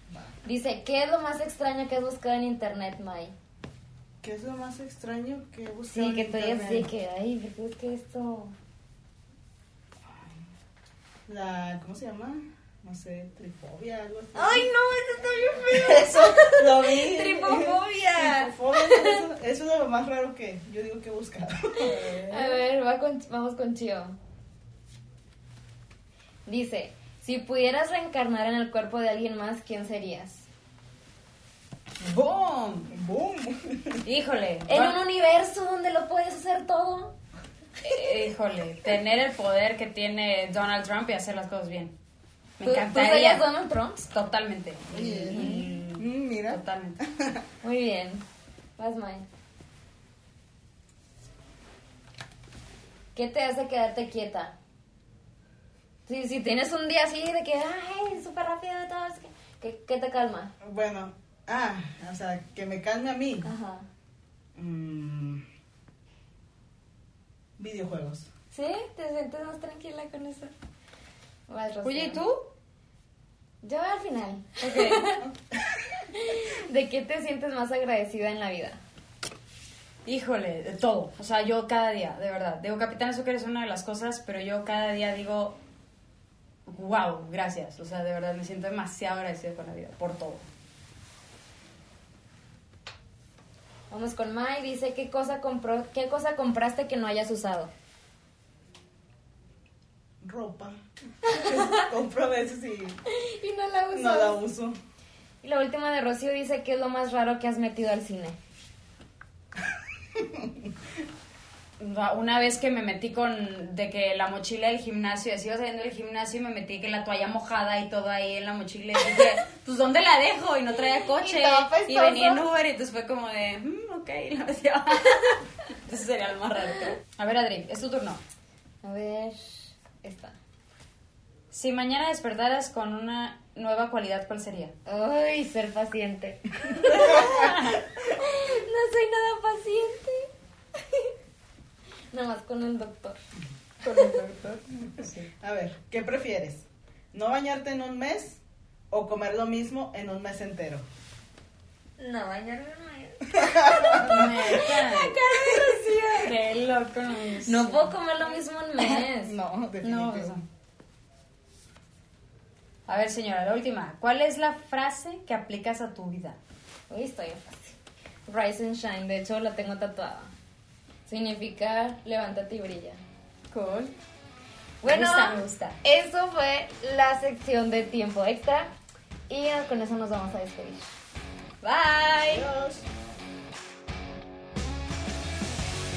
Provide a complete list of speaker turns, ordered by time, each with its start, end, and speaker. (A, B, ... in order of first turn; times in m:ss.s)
0:00.4-0:03.3 A
0:04.2-0:06.9 B
0:05.9-0:08.5 A
0:11.3-0:14.7 B
0:14.4-0:19.3 A
0:15.7-0:22.6 B
0:21.8-0:24.2 A
0:26.5-0:30.5 A
0:32.0-0:32.9 C
0:32.9-0:34.0 B
0:34.0-0:35.0 C
0:34.7-0:37.2 A
0:37.8-0:42.0 C
0:42.6-0:43.4 C
0:42.6-0:44.0 A
0:44.0-0:47.0 C
0:44.9-0:47.4 B
0:45.3-0:45.6 A
0:47.6-0:48.2 A
0:48.8-0:49.3 A
0:53.2-0:54.6 A
0:56.1-1:00.5 A
1:00.6-1:03.5 B
1:03.4-1:03.9 A
1:04.6-1:05.4 B
1:07.6-1:08.3 B
1:08.5-1:10.5 A
1:11.5-1:12.2 A
1:11.8-1:12.5 C
1:13.6-1:15.3 A
1:14.6-1:15.2 C
1:16.1-1:18.8 A
1:20.1-1:25.6 C
1:26.7-1:30.4 C
1:33.9-1:37.7 A
1:40.2-1:43.0 B
1:41.3-1:41.9 A
1:43.1-1:44.4 A
1:43.9-1:44.8 B
1:45.4-1:48.4 A
1:50.2-1:50.7 B
1:51.8-2:08.2 C
2:01.3-2:02.3 A
2:01.3-2:02.4 B
2:08.8-2:10.4 A
2:11.5-2:14.7 C
2:14.9-2:21.1 A
2:16.8-2:18.0 B
2:16.9-2:17.8 C
2:22.1-2:23.2 A
2:23.8-2:30.8 B
2:25.0-2:25.3 C
2:32.0-2:36.4 A
2:33.3-2:34.6 B
2:33.9-2:38.0 C
2:37.4-2:39.4 A
2:38.9-2:40.4 B
2:39.8-2:40.4 C
2:42.9-2:46.4 C
2:46.9-2:47.8 A
2:48.3-2:50.3 A
2:51.1-2:53.0 A
2:53.5-2:54.0 C
2:54.8-2:58.7 A
2:54.8-2:55.8 C
2:59.3-3:00.9 A
3:01.6-3:02.5 C
3:02.3-3:02.9 B